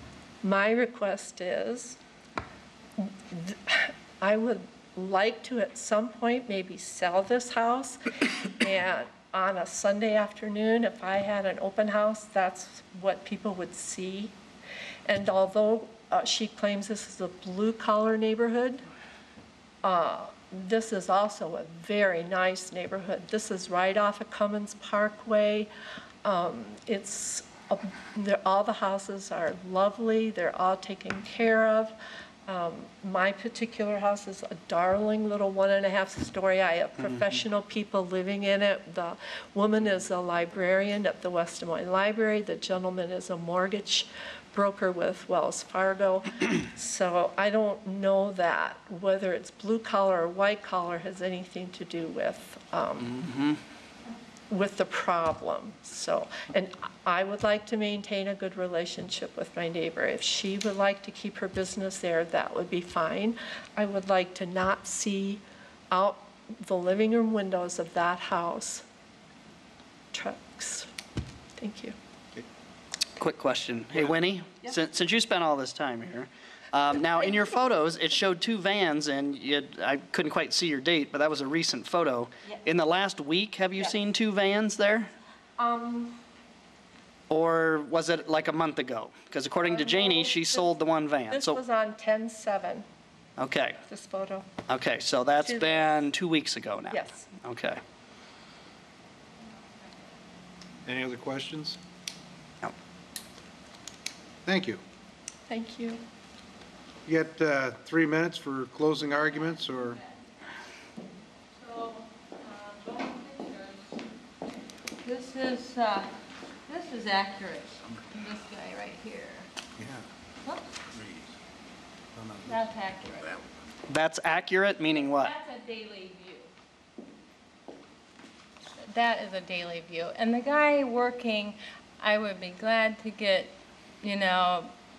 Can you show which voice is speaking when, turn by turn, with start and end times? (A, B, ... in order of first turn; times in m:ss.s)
0:00.4-0:02.0 A
0:03.0-0:14.3 A
0:15.0-0:18.8 A
0:19.8-0:25.7 A
0:26.2-0:53.2 A
0:53.1-0:53.6 B
0:54.5-1:08.8 A
1:10.1-1:10.9 A
1:11.6-1:11.9 A
1:13.2-1:25.1 B
1:25.6-1:26.2 A
1:27.3-1:31.6 B
1:29.6-1:30.7 A
1:31.3-1:32.8 A
1:33.4-1:33.8 B
1:33.8-1:34.5 A
1:34.7-1:37.8 B
1:35.4-1:36.0 A
1:36.9-1:37.2 A
1:40.8-1:41.8 C
1:44.4-1:44.8 C
1:45.5-1:46.0 A
1:47.0-1:50.0 C
1:51.6-1:54.0 D
1:55.0-1:56.1 D
1:56.7-1:59.5 D
1:59.8-2:00.0 C
2:00.9-2:01.3 C
2:02.2-2:02.7 C
2:02.4-2:03.4 D
2:03.9-2:05.3 B
2:04.9-2:06.5 D
2:08.8-2:14.7 D